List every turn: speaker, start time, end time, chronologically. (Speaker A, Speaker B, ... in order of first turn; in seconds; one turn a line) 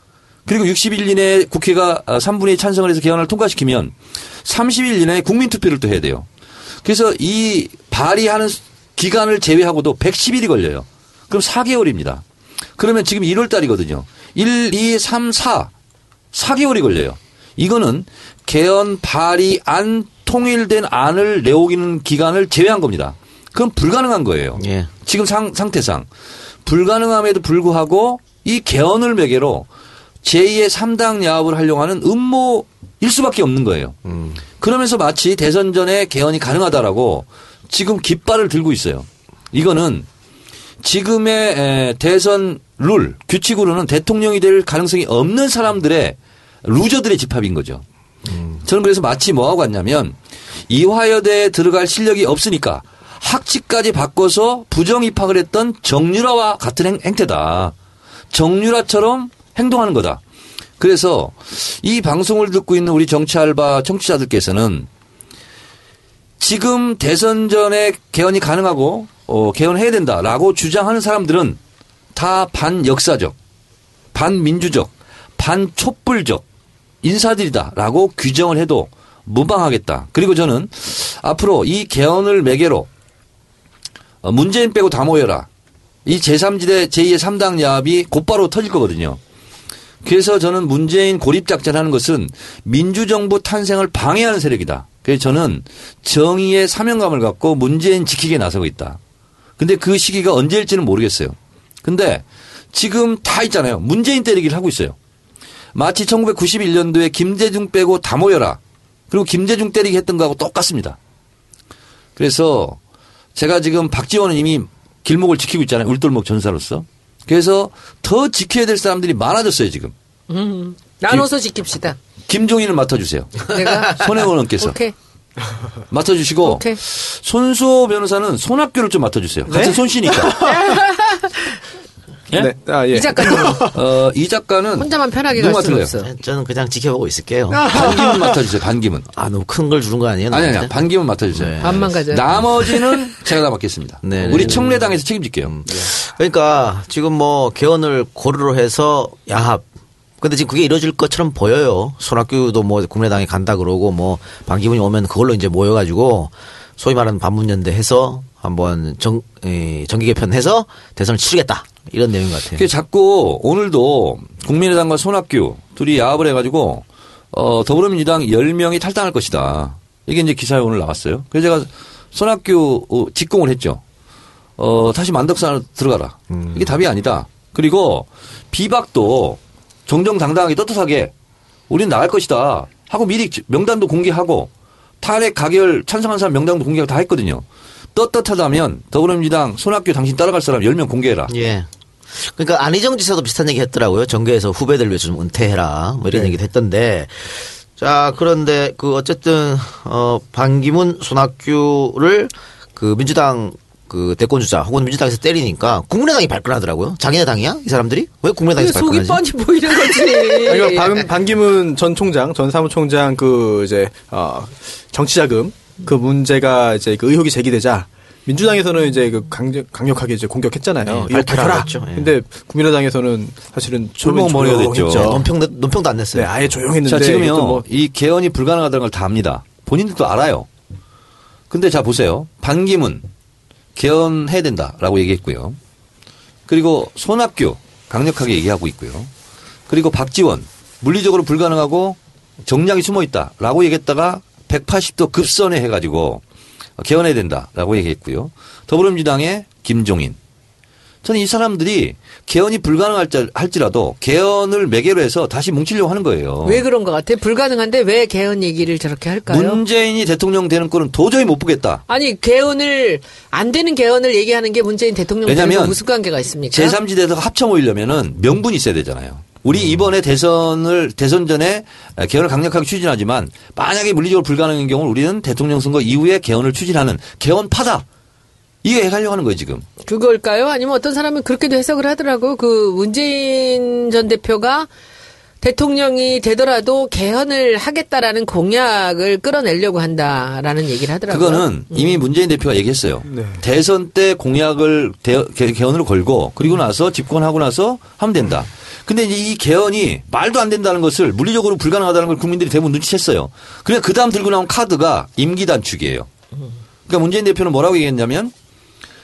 Speaker A: 0.5-6.3
Speaker A: 6.8-12.2
Speaker A: 12.8-15.7
Speaker A: 16.3-26.1
Speaker B: 24.6-24.9
Speaker A: 26.6-29.7
Speaker A: 30.2-34.0
Speaker B: 34.0-34.4
Speaker A: 34.6-40.1
Speaker A: 40.8-47.8
Speaker B: 48.3-48.6
Speaker A: 48.6-50.2
Speaker A: 50.7-57.8
Speaker A: 58.3-60.2
Speaker A: 60.8-64.9
Speaker A: 66.4-71.6
Speaker A: 72.2-73.3
Speaker A: 74.1-76.4
Speaker A: 77.0-82.9
Speaker A: 84.2-85.5
Speaker A: 86.0-89.2
Speaker A: 90.0-99.0
Speaker A: 99.6-105.0
Speaker A: 105.7-108.6
Speaker A: 109.1-111.0
Speaker A: 112.2-112.8
Speaker A: 113.4-119.9
Speaker C: 120.3-122.0
Speaker A: 122.3-124.8
Speaker C: 123.5-124.9
Speaker A: 125.9-130.4
Speaker C: 126.5-126.8
Speaker D: 129.5-130.8
Speaker C: 130.4-131.6
Speaker D: 132.3-133.8
Speaker C: 132.9-133.7
Speaker A: 133.7-135.9
Speaker C: 134.8-136.1
Speaker B: 136.0-137.8
Speaker D: 137.5-138.4
Speaker A: 137.7-139.1
Speaker B: 139.1-140.7
Speaker A: 140.3-145.6
Speaker B: 141.3-141.9
Speaker C: 141.6-142.2
Speaker B: 144.0-144.8
Speaker B: 145.4-149.6
Speaker B: 150.2-162.7
Speaker A: 162.6-173.8
Speaker A: 174.6-181.1
Speaker B: 176.3-176.7
Speaker A: 181.7-184.5
Speaker A: 185.0-191.3
Speaker B: 191.3-209.2
Speaker C: 208.6-211.0
Speaker D: 210.4-225.3
Speaker B: 220.8-222.2
Speaker A: 224.0-225.2
Speaker B: 224.9-226.3
Speaker D: 226.1-227.7
Speaker A: 226.8-230.5
Speaker A: 231.5-233.1
Speaker A: 233.8-235.6
Speaker A: 236.5-239.1
Speaker A: 239.7-246.2
Speaker A: 246.8-250.2
Speaker A: 251.0-256.6
Speaker C: 256.4-259.6
Speaker A: 259.3-261.8
Speaker C: 261.9-266.8
Speaker A: 265.3-265.8
Speaker A: 266.5-277.9
Speaker A: 278.6-279.6
Speaker C: 279.9-284.7
Speaker C: 285.4-292.0
Speaker A: 291.1-306.1
Speaker D: 293.1-293.4
Speaker A: 306.9-308.3